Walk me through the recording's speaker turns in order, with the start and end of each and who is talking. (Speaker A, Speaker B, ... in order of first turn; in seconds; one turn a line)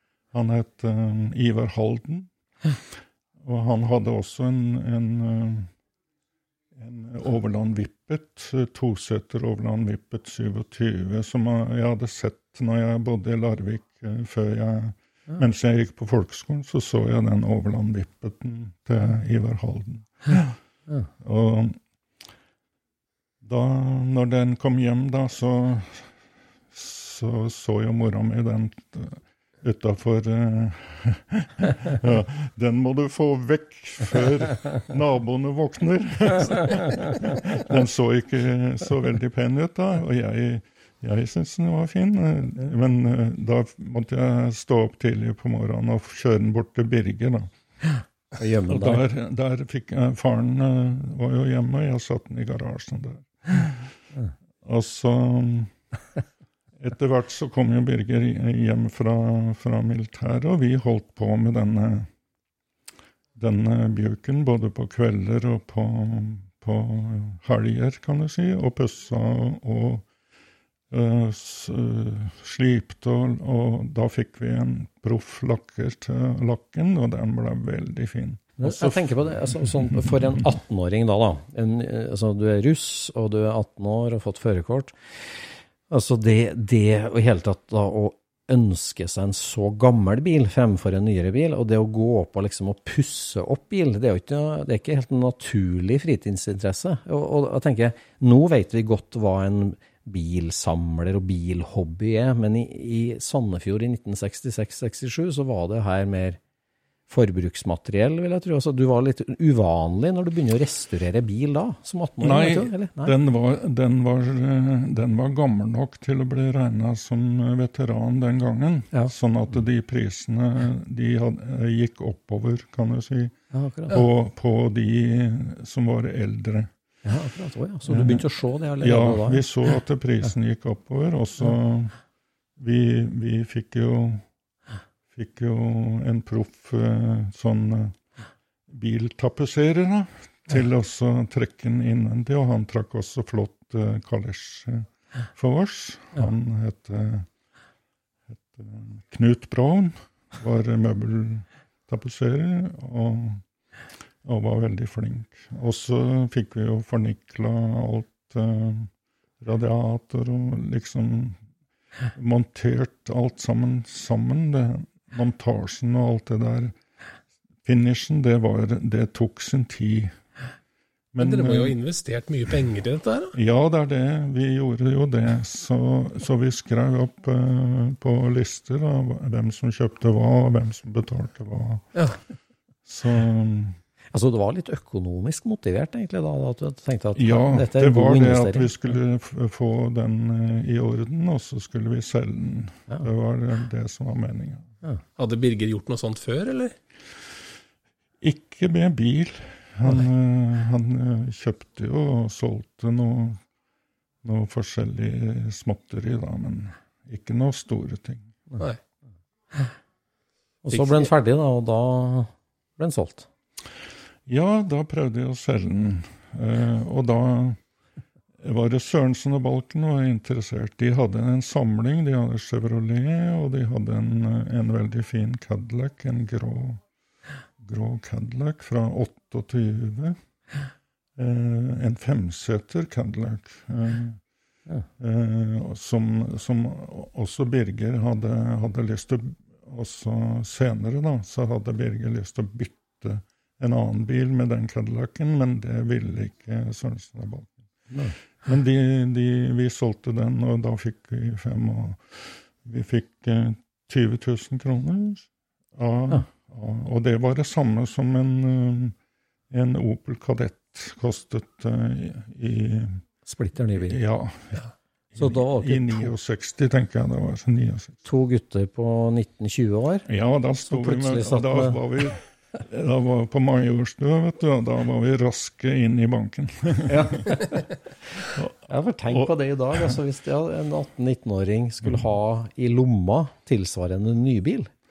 Speaker A: 0.3-2.7
Speaker A: 3.4-5.7
Speaker A: 6.7-20.6
Speaker A: 21.2-21.8
Speaker A: 23.4-26.1
Speaker A: 26.7-47.5
Speaker B: 48.4-49.0
Speaker A: 48.7-53.9
Speaker A: 54.6-55.7
Speaker A: 56.8-62.1
Speaker A: 63.4-70.0
Speaker A: 70.9-80.4
Speaker B: 78.6-106.4
Speaker B: 107.1-113.1
Speaker A: 112.2-123.3
Speaker B: 123.5-124.0
Speaker A: 123.9-126.7
Speaker B: 127.0-129.4
Speaker A: 127.9-128.3
Speaker A: 128.8-131.9
Speaker A: 132.6-134.2
Speaker A: 135.1-138.0
Speaker A: 138.7-147.3
Speaker A: 148.3-153.4
Speaker A: 154.2-158.9
Speaker A: 159.4-161.4
Speaker A: 162.1-166.8
Speaker A: 167.6-170.2
Speaker A: 171.1-171.8
Speaker C: 171.2-173.3
Speaker A: 173.3-181.9
Speaker A: 182.8-183.8
Speaker B: 184.1-188.8
Speaker A: 187.1-194.7
Speaker C: 195.2-196.7
Speaker A: 198.2-203.4
Speaker A: 204.2-208.4
Speaker B: 210.6-213.3
Speaker C: 210.7-211.1
Speaker A: 214.3-217.6
Speaker A: 218.4-226.8
Speaker A: 227.6-230.2
Speaker A: 231.2-234.2
Speaker A: 235.0-247.7
Speaker A: 248.4-258.9
Speaker A: 259.5-263.0
Speaker B: 263.2-264.0
Speaker A: 263.8-264.6
Speaker A: 265.1-268.0
Speaker B: 265.2-266.1
Speaker B: 268.0-270.1
Speaker A: 270.1-277.3
Speaker B: 270.6-271.8
Speaker B: 276.9-277.7
Speaker A: 278.3-280.0
Speaker B: 278.7-284.7